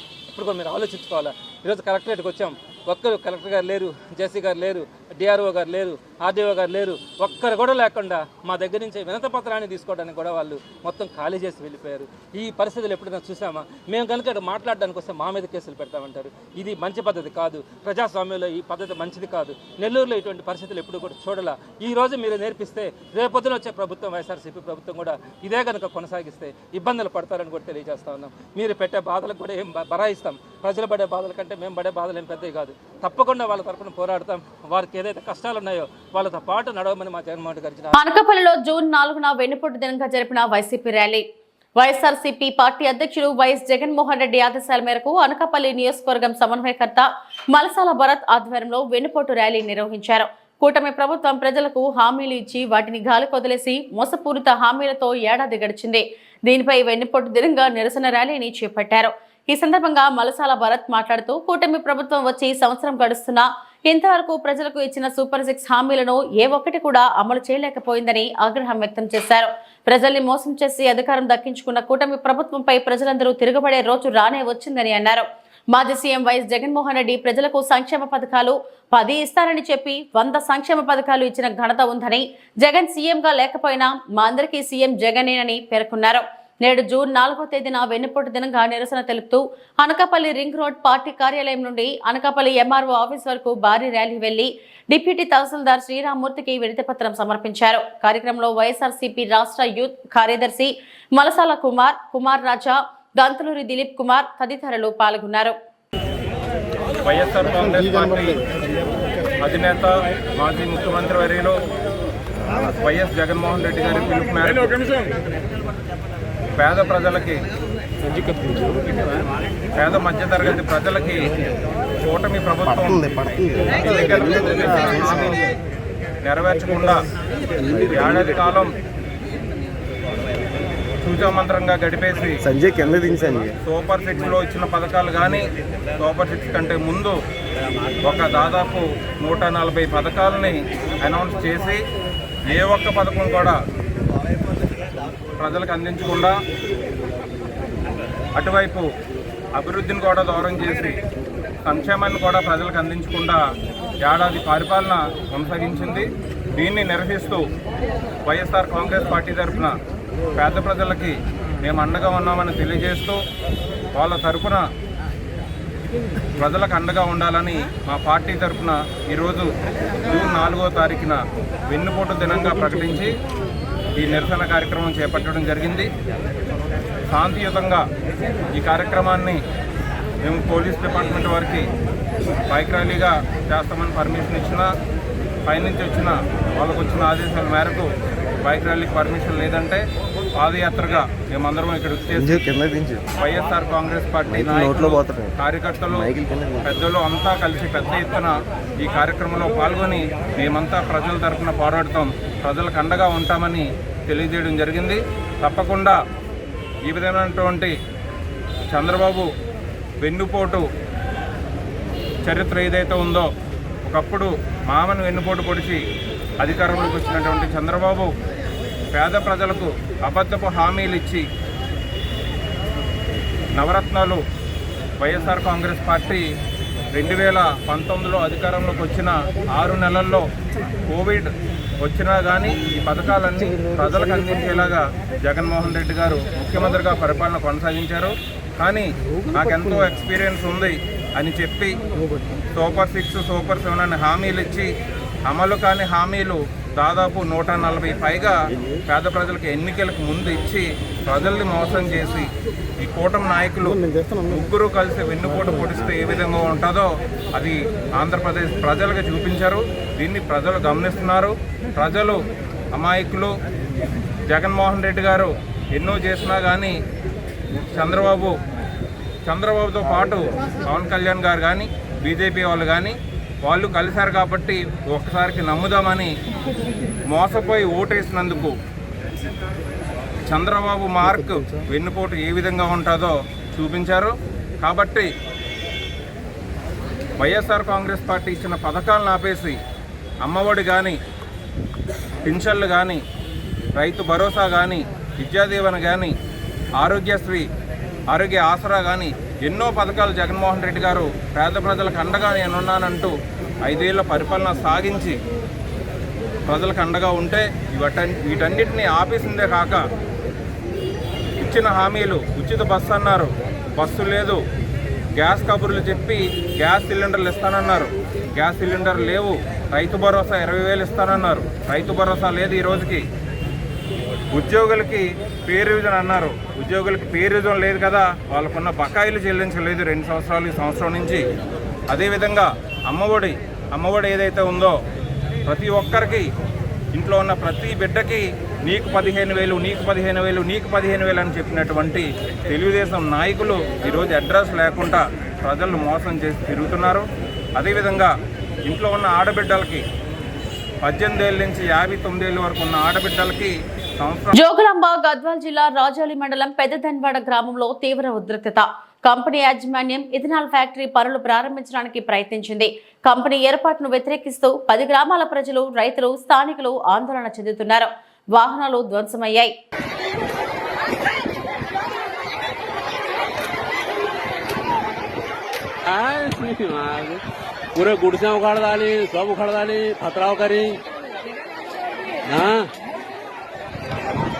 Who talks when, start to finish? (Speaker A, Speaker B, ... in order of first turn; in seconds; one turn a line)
Speaker A: 0.3-38.0
Speaker B: 37.9-41.2
Speaker B: 41.8-105.5
Speaker C: 107.0-108.5
Speaker C: 109.4-111.5
Speaker C: 112.6-114.8
Speaker C: 116.6-117.4
Speaker C: 119.8-121.2
Speaker C: 122.0-123.2
Speaker D: 122.7-125.3
Speaker C: 123.7-125.5
Speaker C: 126.2-127.0
Speaker D: 127.7-128.2
Speaker C: 127.7-128.7
Speaker C: 131.0-132.4
Speaker D: 132.4-133.6
Speaker C: 133.6-135.4
Speaker C: 136.0-137.2
Speaker C: 138.0-141.8
Speaker C: 142.5-143.6
Speaker C: 145.4-146.3
Speaker C: 148.4-148.8
Speaker C: 149.6-150.9
Speaker C: 151.7-153.4
Speaker C: 154.0-157.4
Speaker C: 158.2-159.7
Speaker C: 160.4-163.2
Speaker C: 163.9-164.6
Speaker C: 166.4-169.5
Speaker C: 170.1-173.1
Speaker C: 173.9-175.9
Speaker C: 177.1-177.8
Speaker C: 178.5-179.4
Speaker C: 180.2-181.7
Speaker C: 182.5-184.7
Speaker C: 185.5-187.9
Speaker C: 188.4-189.8
Speaker C: 190.4-192.4
Speaker D: 192.1-193.0
Speaker C: 193.2-196.1
Speaker D: 194.3-195.3
Speaker D: 195.9-196.7
Speaker C: 196.6-206.0
Speaker C: 206.9-207.8
Speaker C: 208.7-209.3
Speaker C: 210.0-210.7
Speaker C: 212.2-213.3
Speaker C: 213.8-215.8
Speaker C: 216.4-218.1
Speaker C: 218.9-221.2
Speaker C: 223.5-224.2
Speaker C: 225.0-226.2
Speaker C: 226.9-230.2
Speaker C: 230.9-231.3
Speaker C: 231.8-241.7
Speaker C: 242.6-244.7
Speaker C: 245.3-252.3
Speaker C: 252.8-262.2
Speaker C: 262.7-263.3
Speaker C: 264.3-266.8
Speaker C: 267.6-268.3
Speaker C: 269.2-276.1
Speaker C: 277.1-278.5
Speaker C: 280.3-285.1
Speaker C: 287.2-289.6
Speaker C: 290.2-291.0
Speaker C: 292.2-293.0
Speaker C: 293.8-296.1
Speaker C: 296.8-297.5
Speaker C: 298.1-303.1
Speaker C: 303.6-305.1
Speaker C: 306.5-309.8
Speaker C: 311.4-314.4
Speaker C: 315.1-323.0
Speaker C: 324.3-331.2
Speaker C: 331.9-334.7
Speaker C: 335.4-336.3
Speaker C: 336.9-347.0
Speaker C: 347.6-348.1
Speaker C: 348.7-349.8
Speaker C: 350.8-354.4
Speaker B: 354.3-369.5
Speaker E: 375.9-377.2
Speaker E: 377.8-380.8
Speaker E: 382.2-382.7